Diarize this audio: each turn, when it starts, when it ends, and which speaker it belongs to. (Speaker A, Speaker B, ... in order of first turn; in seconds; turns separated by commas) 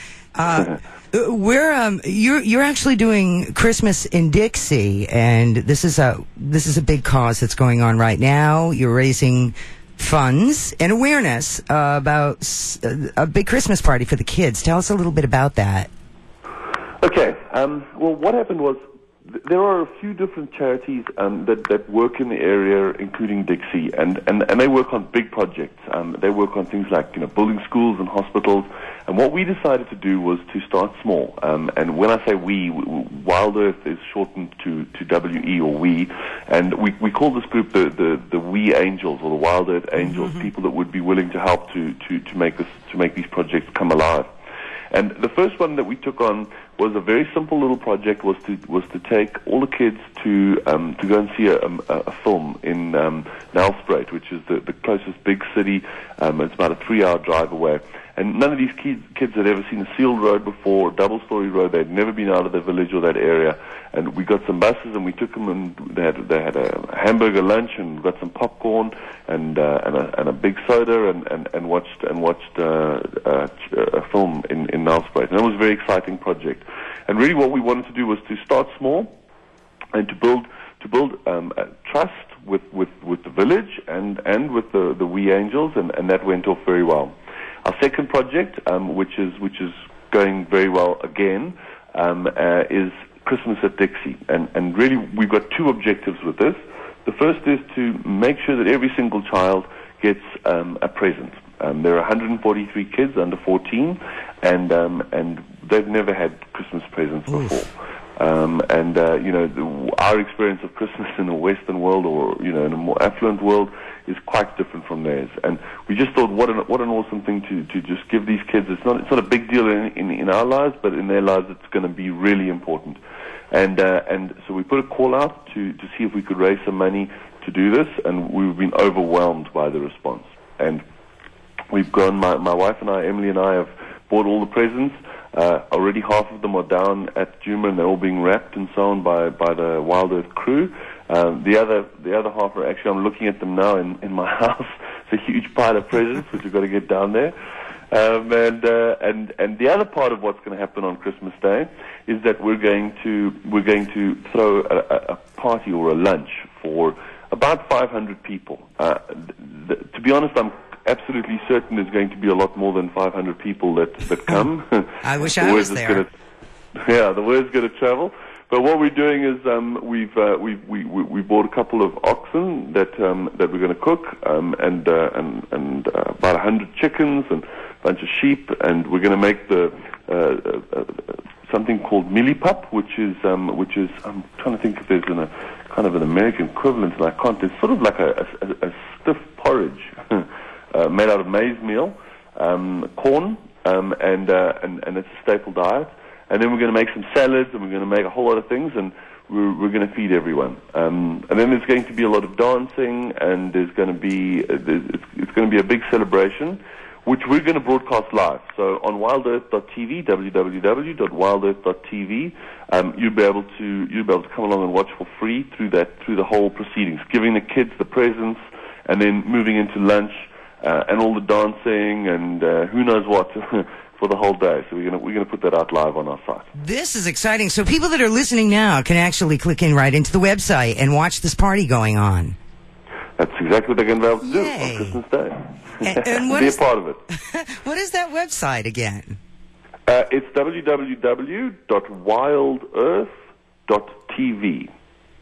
Speaker A: 0.3-15.9, Speaker B: 17.0-44.3, Speaker A: 40.0-40.3, Speaker B: 44.9-79.1, Speaker B: 79.9-123.0, Speaker A: 107.3-107.5, Speaker B: 123.5-130.8, Speaker B: 131.7-147.3, Speaker B: 147.9-166.1, Speaker A: 165.0-166.0, Speaker B: 166.8-226.4, Speaker A: 226.5-232.3, Speaker B: 233.2-237.0, Speaker A: 234.2-235.0, Speaker A: 235.8-236.6, Speaker A: 237.3-239.2, Speaker B: 239.8-243.1, Speaker B: 243.7-244.7